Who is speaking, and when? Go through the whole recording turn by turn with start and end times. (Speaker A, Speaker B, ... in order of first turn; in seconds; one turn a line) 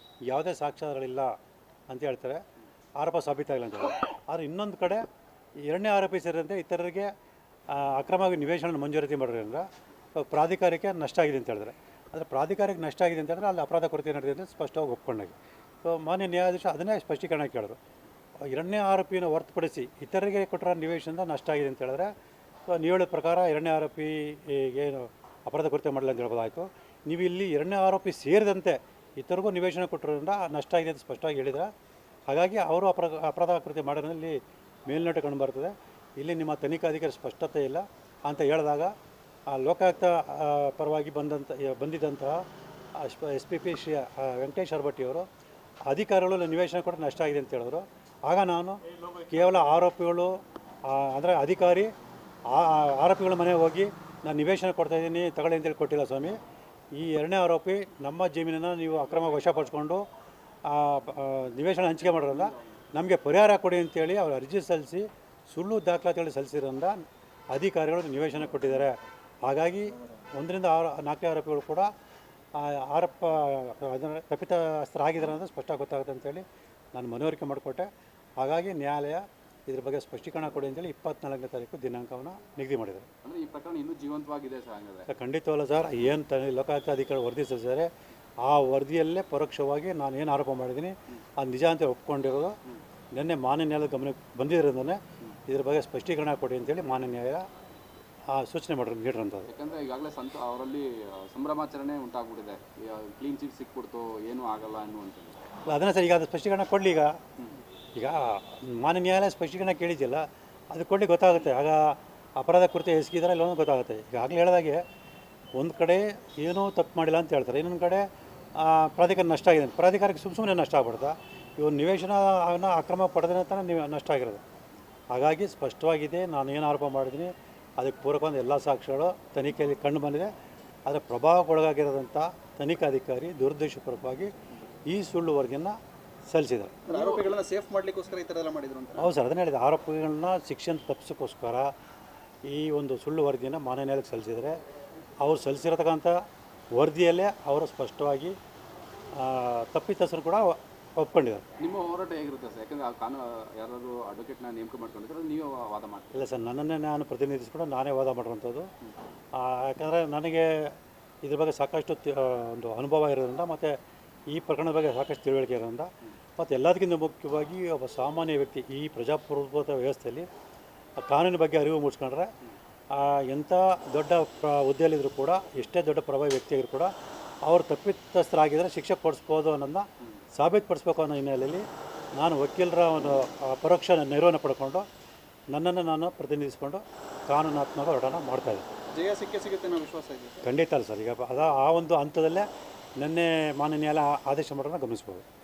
Speaker A: 0.3-1.3
Speaker A: 1.9-2.4
Speaker A: 3.0-5.1
Speaker A: 5.6-7.1
Speaker A: 7.7-17.8
Speaker A: 18.4-22.1
Speaker A: 22.7-31.7
Speaker A: 32.3-38.9
Speaker A: 39.5-42.4
Speaker A: 42.9-45.2
Speaker A: 45.9-51.9
Speaker A: 52.5-56.4
Speaker A: 56.9-60.0
Speaker A: 60.6-71.9
Speaker B: 61.9-62.6
Speaker A: 72.5-83.1
Speaker B: 83.2-85.1
Speaker A: 85.1-87.9
Speaker A: 88.4-92.6
Speaker A: 93.1-97.5
Speaker A: 98.3-99.5
Speaker B: 99.5-105.3
Speaker A: 105.7-107.2
Speaker A: 108.0-114.8
Speaker A: 115.5-124.4
Speaker A: 125.1-130.3
Speaker A: 130.8-134.3
Speaker A: 134.9-135.7
Speaker A: 136.3-136.8
Speaker C: 136.8-139.1
Speaker B: 136.9-137.3
Speaker A: 139.0-141.7
Speaker A: 142.4-144.6
Speaker A: 145.2-146.1
Speaker A: 146.7-148.3
Speaker A: 149.1-151.4
Speaker B: 151.6-156.3
Speaker A: 156.1-158.7
Speaker A: 159.3-160.7
Speaker A: 161.2-163.8
Speaker A: 164.3-170.3
Speaker A: 171.0-172.3
Speaker A: 172.9-176.9
Speaker A: 177.4-181.7
Speaker A: 182.2-184.8
Speaker A: 185.5-188.7
Speaker C: 188.9-190.4
Speaker A: 190.4-192.5
Speaker A: 193.0-195.2